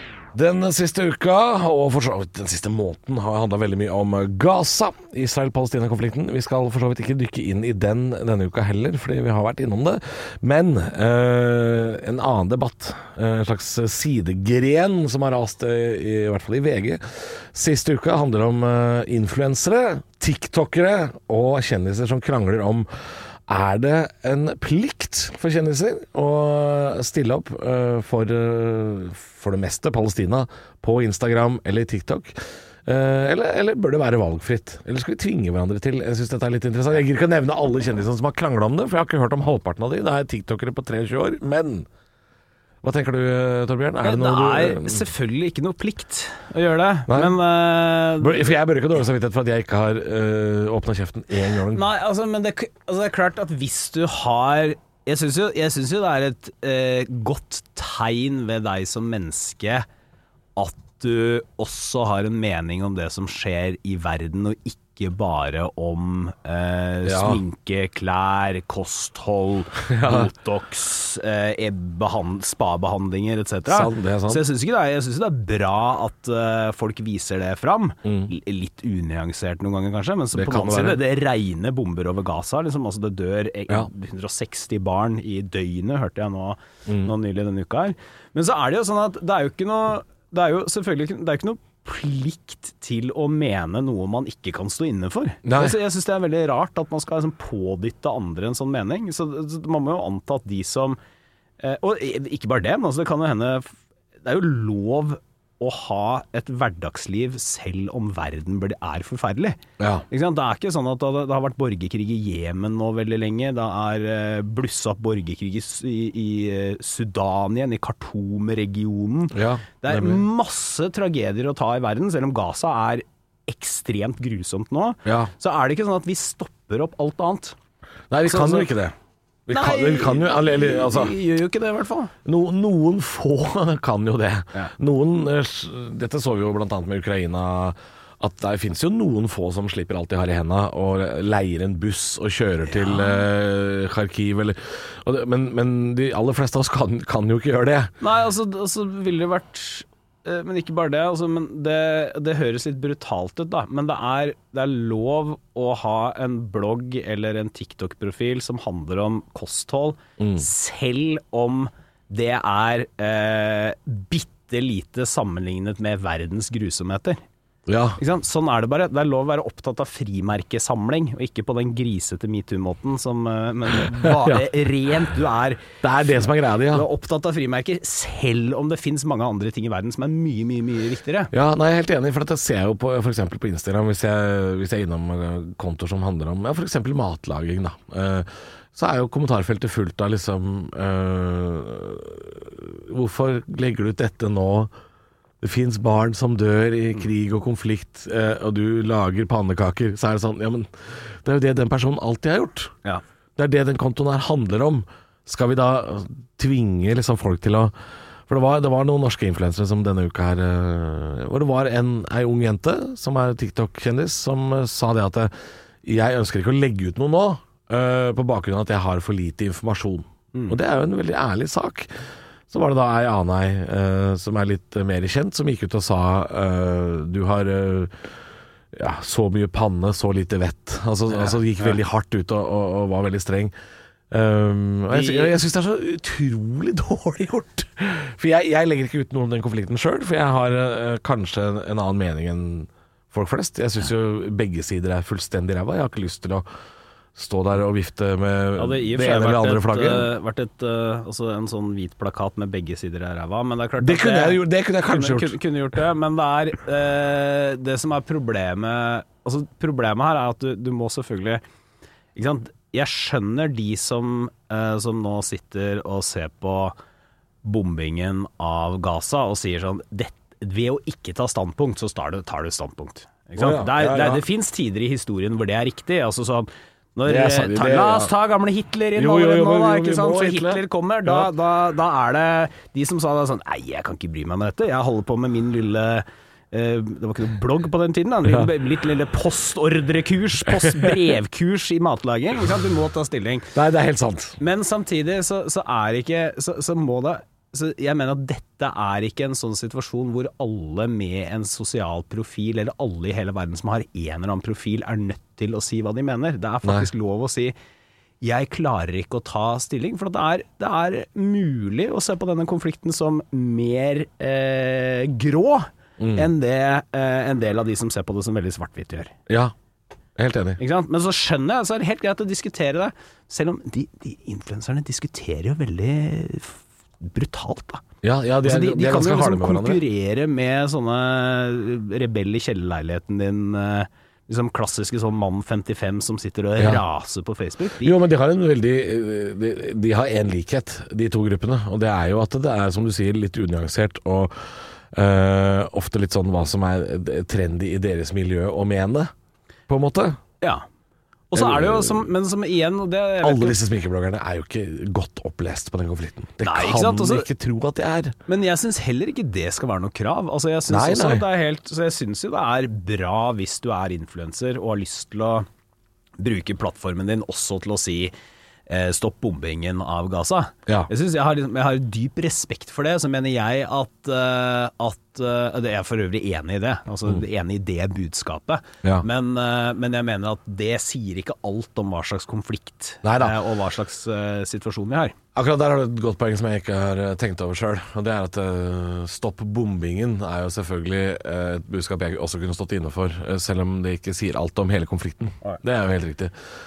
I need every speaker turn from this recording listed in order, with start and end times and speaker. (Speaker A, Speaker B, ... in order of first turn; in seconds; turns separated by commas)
Speaker A: 0.3-22.9, Speaker A: 23.5-41.9, Speaker A: 42.8-45.0, Speaker B: 44.0-48.4, Speaker A: 47.1-47.4, Speaker A: 48.2-51.9, Speaker B: 51.7-59.9, Speaker B: 60.5-101.0, Speaker A: 67.0-67.4, Speaker A: 69.9-70.3, Speaker A: 73.7-74.4, Speaker A: 78.0-78.3, Speaker A: 80.3-81.0, Speaker A: 86.9-87.1, Speaker A: 95.4-95.8, Speaker B: 101.6-127.5, Speaker A: 109.8-110.0, Speaker A: 119.3-120.2, Speaker A: 125.0-125.3, Speaker A: 128.1-128.9, Speaker B: 128.2-128.7, Speaker A: 129.5-131.1, Speaker B: 129.5-132.1, Speaker A: 132.2-147.9, Speaker B: 142.7-143.2, Speaker B: 148.0-167.2, Speaker A: 160.2-160.5, Speaker A: 167.7-168.0, Speaker B: 168.0-175.8, Speaker A: 173.9-174.5, Speaker A: 175.8-176.9, Speaker B: 176.7-181.3, Speaker A: 181.3-194.7, Speaker A: 195.4-202.7, Speaker A: 203.4-207.7, Speaker A: 208.3-221.9, Speaker A: 222.5-227.9, Speaker A: 228.7-233.5, Speaker B: 231.2-231.8, Speaker A: 234.1-246.4, Speaker B: 234.9-235.3, Speaker A: 247.1-250.1, Speaker B: 248.6-261.4, Speaker A: 253.8-255.4, Speaker B: 262.1-266.8, Speaker B: 267.4-293.5, Speaker A: 273.4-274.2, Speaker A: 277.1-278.1, Speaker A: 278.9-281.3, Speaker A: 288.3-288.5, Speaker A: 290.5-291.1, Speaker A: 293.5-294.4, Speaker B: 294.4-307.5, Speaker A: 306.6-306.9, Speaker B: 308.2-319.1, Speaker A: 316.0-316.3, Speaker A: 319.3-319.5, Speaker A: 320.2-320.6, Speaker B: 320.6-327.8, Speaker A: 328.0-329.8, Speaker B: 328.4-337.9, Speaker A: 337.8-349.1, Speaker A: 349.7-350.2, Speaker B: 351.3-353.6, Speaker A: 351.3-352.1, Speaker A: 353.2-358.1, Speaker B: 356.4-357.3, Speaker B: 358.3-365.4, Speaker A: 360.7-361.3, Speaker B: 366.2-368.1, Speaker B: 368.7-385.1, Speaker A: 383.0-383.4, Speaker A: 385.4-396.3